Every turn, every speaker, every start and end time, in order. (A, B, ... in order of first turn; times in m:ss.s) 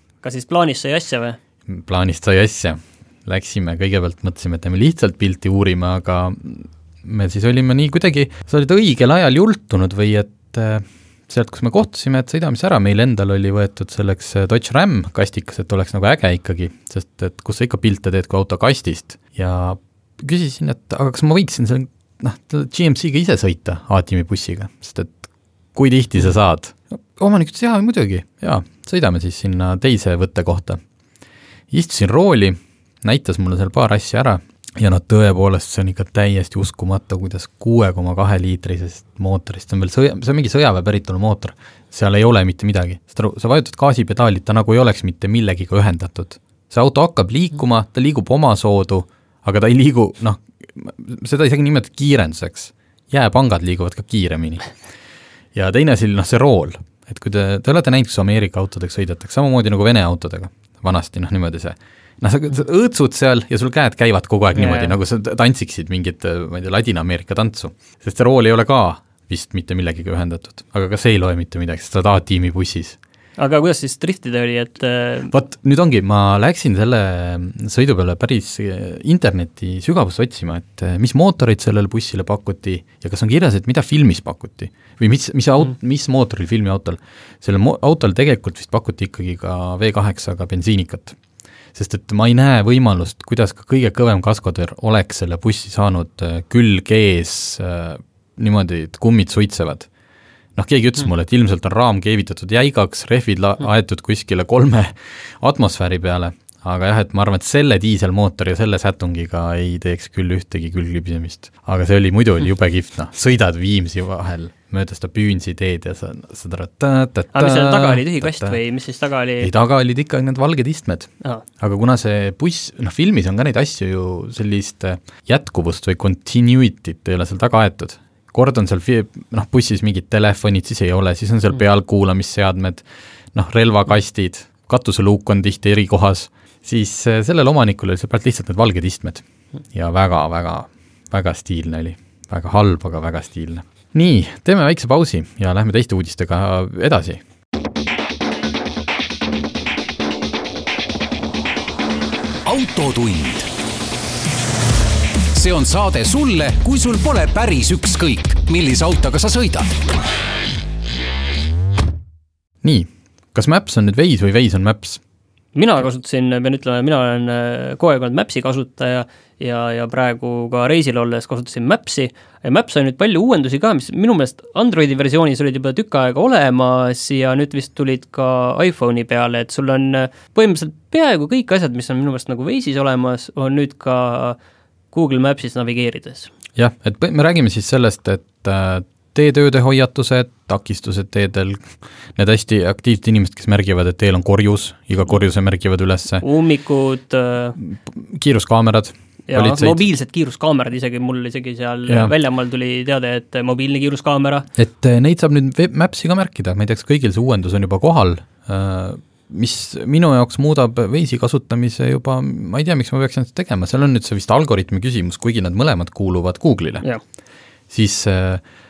0:00.2-0:01.4 A
0:01.7-0:30.8 B
0:31.7-0:54.7 B
0:55.5-1:13.0 B
1:04.6-1:04.9 A
1:13.4-1:15.3 A
1:15.3-1:31.2 B
1:31.7-1:39.9 B
1:40.6-1:58.6 B
1:57.3-1:59.5 A
1:59.4-2:27.2 B
2:32.5-2:33.5 C
2:35.3-2:39.7 C
2:42.6-2:45.0 B
2:45.6-3:04.4 A
3:04.9-3:06.3 A
3:06.6-3:16.2 B
3:16.2-3:17.6 A
3:17.6-3:19.9 B
3:19.3-3:24.5 A
3:21.9-3:22.1 B
3:24.6-3:36.8 B
3:37.7-3:38.4 B